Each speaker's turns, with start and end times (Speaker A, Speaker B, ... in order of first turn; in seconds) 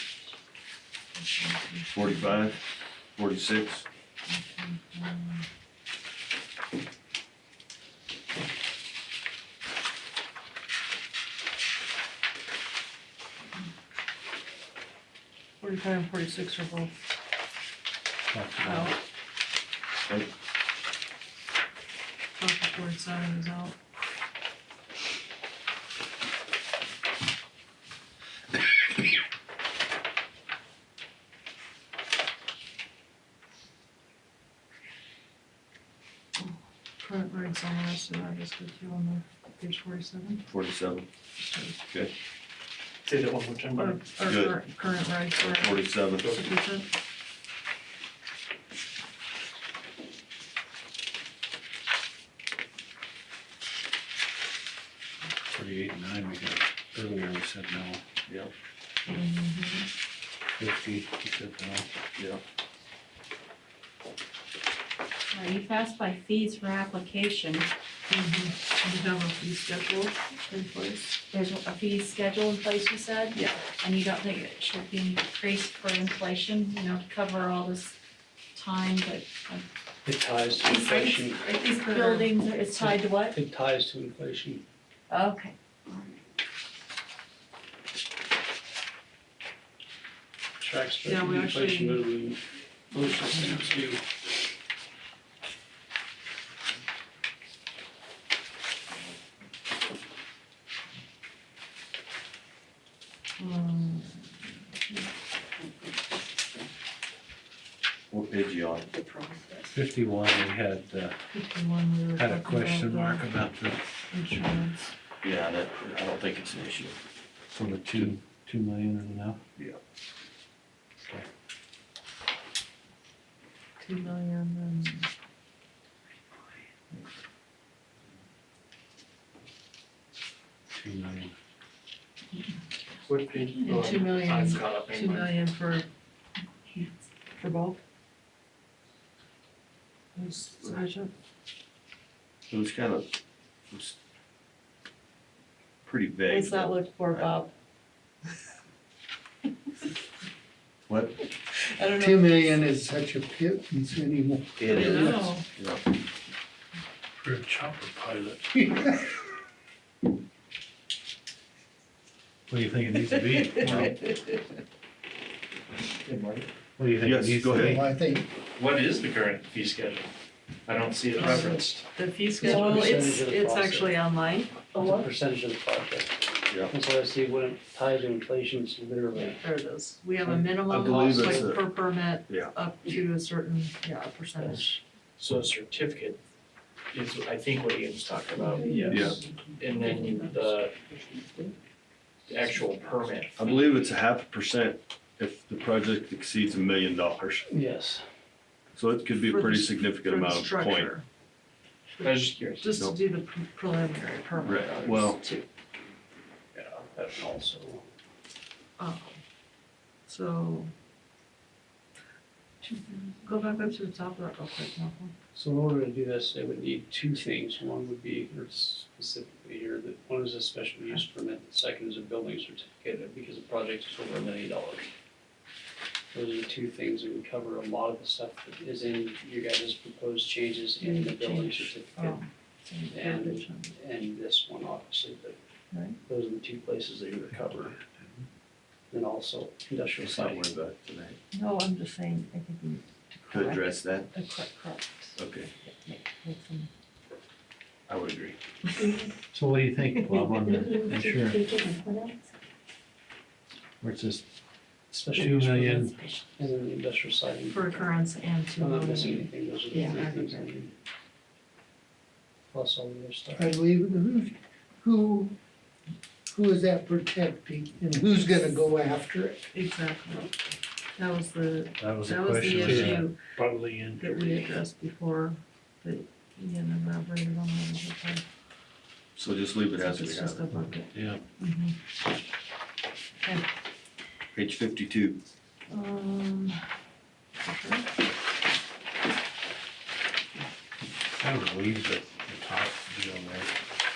Speaker A: 1.1-2.5, 4.3-5.5, 15.6-16.9, 18.6-19.0, 22.4-23.7, 36.4-40.4, 41.4-41.8, 43.7-46.9, 59.0-59.9, 68.1-71.2, 73.3-73.6, 81.5-82.3, 91.0-92.1, 92.9-93.9, 103.4-104.3, 108.9-109.7, 111.3-113.3, 114.1-114.9, 123.8-125.1, 133.7-135.8, 137.4-137.8, 140.1-141.1, 146.3-147.5, 151.5-152.6, 154.7-155.4, 163.4-163.9, 171.1-175.1, 179.2-184.7, 188.6-189.1, 189.8-190.3, 199.3-201.0, 202.6-205.5, 208.8-209.2, 210.1-210.7, 213.2-215.1, 230.8-233.7, 235.7-236.0, 241.3-246.7, 257.5-259.0, 269.5-270.3, 270.9-273.2, 273.9-278.2, 279.8-281.8, 285.7-286.7, 287.4-287.9
Speaker B: 1.9-2.6, 3.1-3.8, 40.5-41.1, 44.2-44.6, 45.4-46.3, 108.1-108.9, 115.2-116.9, 142.5-143.1, 143.7-143.9, 145.8-147.3, 150.9-151.2, 154.6-155.8, 167.0-167.8, 180.7-181.6, 182.3-182.5, 188.9-189.2, 193.4-197.4, 198.7-200.9, 204.4-205.2, 240.0-241.2, 243.3-244.1, 245.2-245.5, 247.9-248.4, 279.1-280.5, 284.3-285.2
Speaker C: 18.3-18.9, 55.5-58.0, 60.6-61.9, 109.7-111.2, 112.2-113.8, 117.5-119.4, 130.7-131.3, 157.2-158.5, 162.5-163.9, 166.8-167.9, 249.3-251.4, 253.8-254.2, 255.1-255.9, 271.8-274.3, 280.5-281.2, 291.2-293.5
Speaker D: 43.0-44.1, 133.1-135.3, 166.0-166.5, 168.6-170.1, 170.7-171.8, 185.2-186.2, 186.9-190.8, 192.3-193.5, 202.0-202.7
Speaker E: 65.3-67.7, 71.3-77.9, 78.5-79.7, 80.6-83.4, 85.1-85.5, 133.4-134.0, 212.6-213.0, 250.4-252.2, 255.9-256.2, 258.8-260.5
Speaker F: 80.0-81.4, 82.8-84.6, 90.6-94.0, 171.2-171.6, 172.4-174.0, 174.7-179.4, 180.2-181.5, 184.4-184.7, 188.6-189.1, 197.5-198.1, 206.5-207.8, 215.3-224.9, 226.1-232.2, 232.9-235.4, 236.0-237.8, 238.9-240.5, 254.9-258.0, 258.6-260.7, 262.5-263.6
Speaker G: 151.9-155.1, 158.5-159.1, 167.6-168.3, 263.3-265.4, 266.3-269.5